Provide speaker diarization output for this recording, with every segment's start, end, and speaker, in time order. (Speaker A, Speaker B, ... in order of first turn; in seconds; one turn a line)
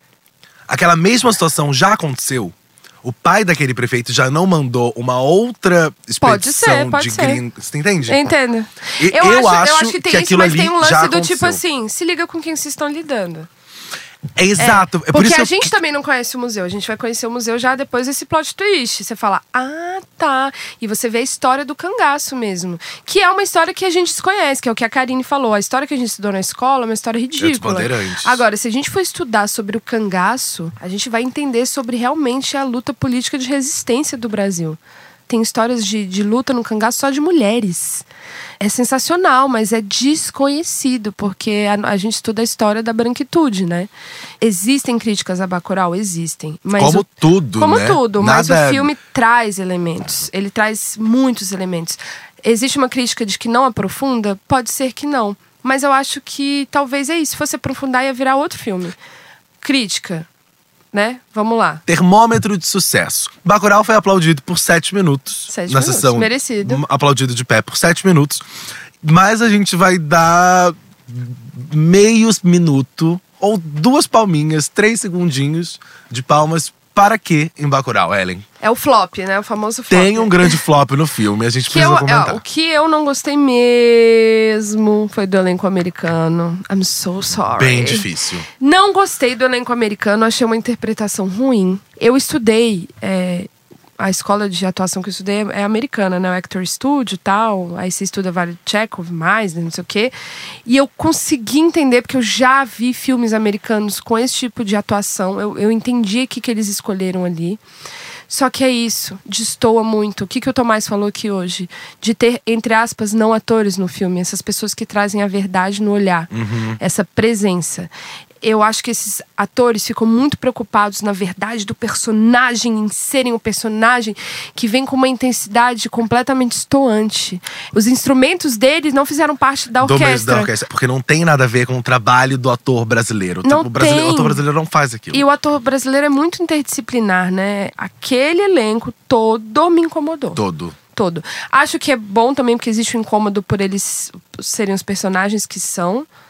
Speaker A: 0.7-8.3
Speaker B: 6.2-7.4
Speaker B: 8.1-13.5
Speaker A: 9.0-11.6
Speaker A: 14.3-15.7
Speaker B: 14.6-38.0
Speaker A: 27.4-28.4
Speaker B: 38.6-43.9
Speaker B: 44.4-59.0
Speaker A: 46.8-48.9
Speaker B: 59.6-60.3
Speaker B: 60.9-61.8
Speaker A: 61.9-68.4
Speaker B: 65.5-66.8
Speaker A: 69.0-78.5
Speaker B: 78.6-80.6
Speaker A: 79.9-82.4
Speaker B: 81.7-88.1
Speaker A: 87.6-88.5
Speaker B: 88.6-100.1
Speaker B: 100.7-107.6
Speaker B: 108.3-117.9
Speaker A: 116.3-116.8
Speaker B: 118.4-130.5
Speaker A: 129.8-135.2
Speaker B: 133.4-134.4
Speaker B: 135.1-140.4
Speaker A: 140.3-140.8
Speaker B: 140.9-146.1